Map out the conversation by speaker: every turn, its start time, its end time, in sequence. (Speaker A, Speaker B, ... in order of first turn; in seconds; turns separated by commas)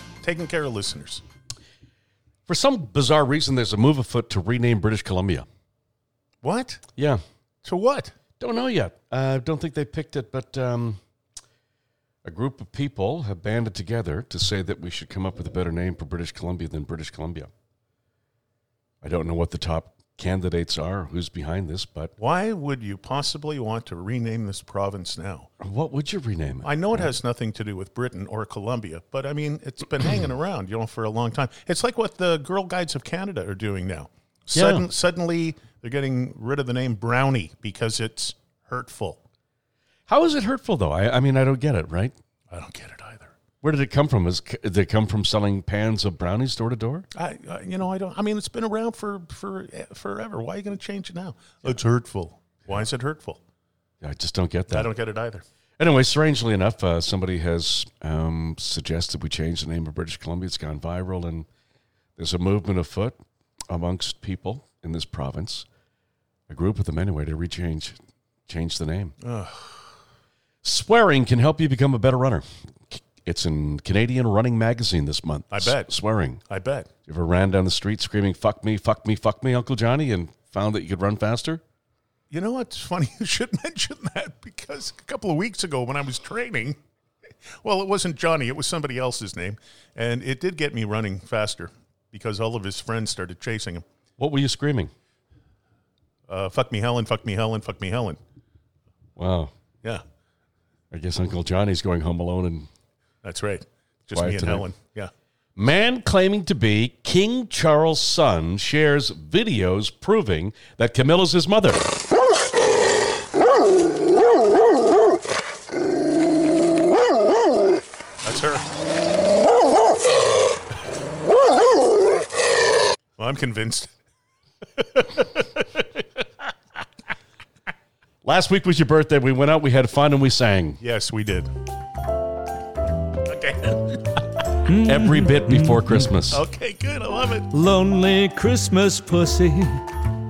Speaker A: 0.2-1.2, Speaker B: 2.5-5.5, Speaker A: 6.4-6.8, Speaker B: 7.0-7.2, Speaker A: 7.6-8.1, Speaker B: 8.4-11.0, Speaker B: 12.2-17.5, Speaker B: 19.0-22.1, Speaker A: 22.2-25.5, Speaker B: 25.6-27.1, Speaker A: 26.6-39.2, Speaker B: 34.5-34.9, Speaker B: 40.1-42.1, Speaker A: 42.5-43.3, Speaker B: 43.6-47.0, Speaker A: 47.1-53.4, Speaker B: 54.0-54.9, Speaker A: 54.7-55.4, Speaker B: 55.8-61.5, Speaker B: 62.1-63.2, Speaker B: 63.7-65.7, Speaker B: 66.5-69.1, Speaker A: 69.2-69.8, Speaker B: 70.6-76.4, Speaker A: 75.5-75.9, Speaker A: 76.5-76.9, Speaker B: 77.1-81.6, Speaker A: 82.3-86.8, Speaker A: 87.6-93.8, Speaker B: 94.2-94.9, Speaker A: 96.3-98.2, Speaker B: 99.2-99.5, Speaker B: 100.9-102.7, Speaker A: 103.2-105.1, Speaker B: 104.1-104.7, Speaker B: 105.5-111.9, Speaker A: 118.2-118.6, Speaker A: 123.2-123.9, Speaker A: 124.8-126.2, Speaker B: 128.2-130.8, Speaker A: 130.8-131.5, Speaker A: 133.2-134.4, Speaker C: 134.7-136.1, Speaker B: 134.7-136.4, Speaker A: 136.3-137.5, Speaker C: 137.5-139.8